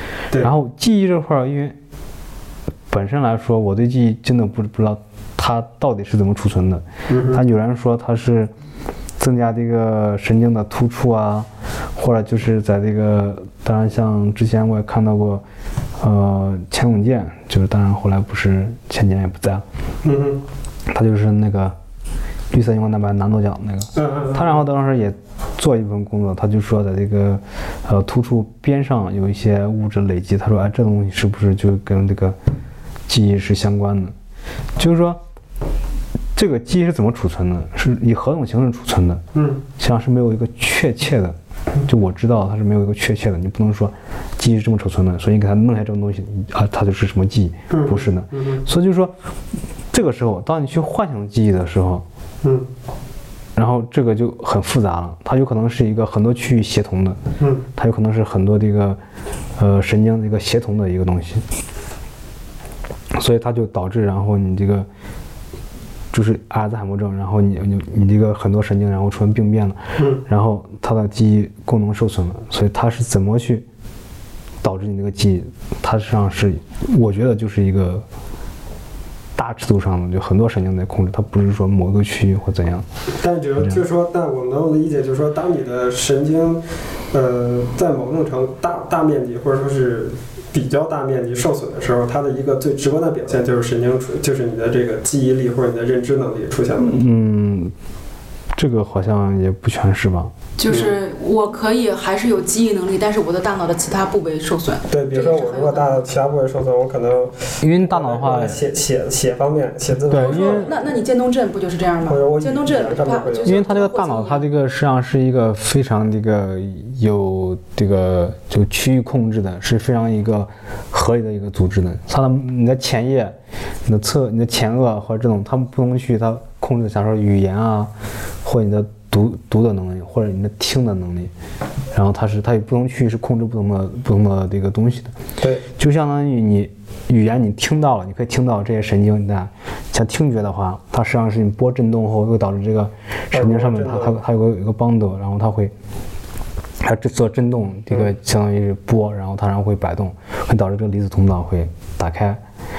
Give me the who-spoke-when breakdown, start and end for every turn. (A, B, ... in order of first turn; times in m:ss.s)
0:00.4-0:01.8 A
0:02.9-0:08.5 A
0:07.1-0:07.4 B
0:09.2-0:15.4 A
0:16.0-0:19.6 A
0:20.0-0:20.4 B
0:20.9-0:21.8 A
0:22.5-0:32.4 A
0:24.0-0:24.6 B
0:33.1-0:34.2 A
0:34.8-0:35.2 A
0:36.4-0:39.2 A
0:39.4-0:39.6 B
0:39.8-0:49.2 A
0:47.7-0:48.6 B
0:49.9-0:52.0 A
0:52.4-0:52.7 B
0:53.6-0:57.2 A
0:57.4-0:57.7 B
0:57.8-0:59.0 A
0:59.6-1:01.4 A
1:03.2-1:04.9 A
1:06.1-1:13.7 A
1:10.0-1:10.2 B
1:14.6-1:18.1 A
1:19.4-1:22.9 A
1:23.2-1:37.0 B
1:36.8-1:37.7 A
1:38.6-1:40.3 A
1:40.6-1:46.0 C
1:40.7-1:40.9 B
1:44.9-1:50.8 B
1:47.6-1:48.6 A
1:50.1-1:50.7 A
1:50.1-1:54.4 C
1:52.1-1:53.6 B
1:53.4-2:07.9 A
2:08.4-2:11.3 A
2:11.9-2:15.2 A
2:15.8-2:25.7 A
2:23.3-2:24.2 B
2:26.8-2:32.4 A